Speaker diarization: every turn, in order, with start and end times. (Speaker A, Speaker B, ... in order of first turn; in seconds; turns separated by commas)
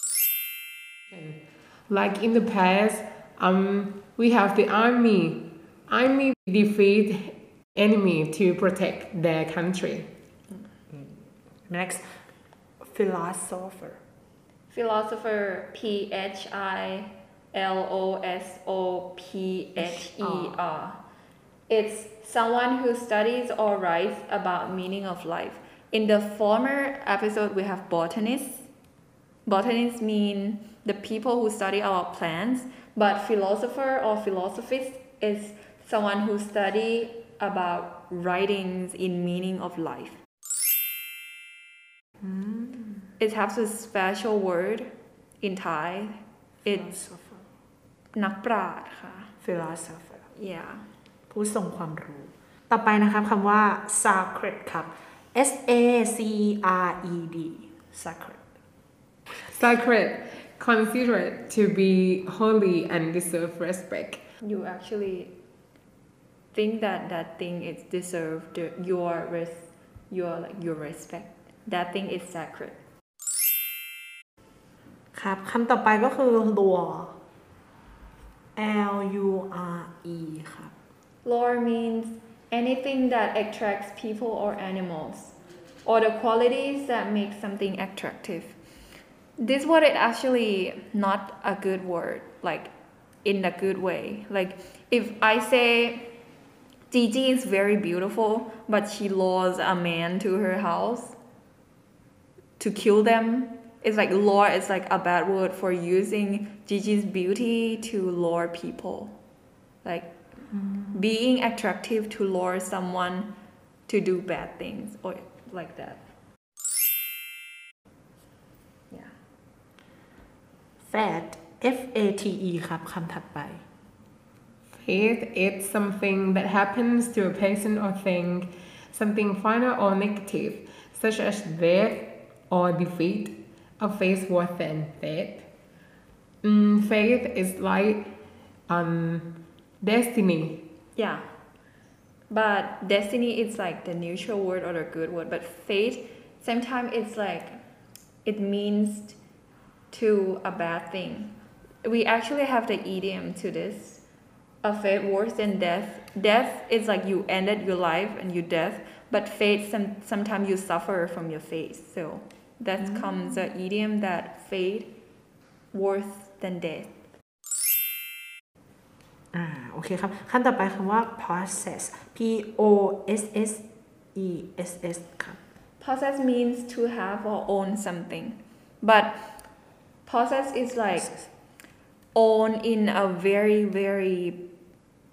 Speaker A: 1.1-10.1, Speaker B: 10.9-12.1, Speaker B: 12.8-14.0, Speaker C: 14.7-21.0, Speaker B: 19.8-20.6, Speaker C: 21.7-28.7, Speaker C: 29.4-40.2, Speaker B: 42.2-43.1, Speaker C: 43.2-47.0, Speaker B: 46.7-47.4, Speaker C: 48.1-49.3, Speaker B: 49.4-50.2, Speaker C: 50.4-50.9, Speaker B: 51.3-58.4, Speaker A: 59.4-64.2, Speaker C: 64.4-65.3, Speaker C: 66.5-72.8, Speaker B: 75.1-77.2, Speaker B: 78.6-80.7, Speaker C: 81.2-88.5, Speaker C: 89.4-92.7, Speaker C: 93.2-96.1, Speaker C: 96.9-101.2, Speaker C: 102.6-109.2, Speaker C: 109.8-110.1, Speaker B: 110.6-111.0, Speaker C: 110.9-113.3, Speaker C: 113.9-116.0, Speaker B: 120.9-123.6, Speaker A: 124.7-135.5, Speaker A: 136.4-138.1, Speaker A: 138.7-140.6, Speaker C: 141.0-141.2, Speaker C: 142.3-147.6, Speaker C: 148.2-149.2, Speaker C: 149.9-154.0, Speaker C: 154.6-164.9, Speaker B: 162.8-163.4, Speaker C: 165.7-167.0, Speaker B: 169.3-173.6, Speaker B: 174.2-175.4, Speaker C: 175.8-179.4, Speaker C: 180.1-181.1, Speaker C: 182.2-184.4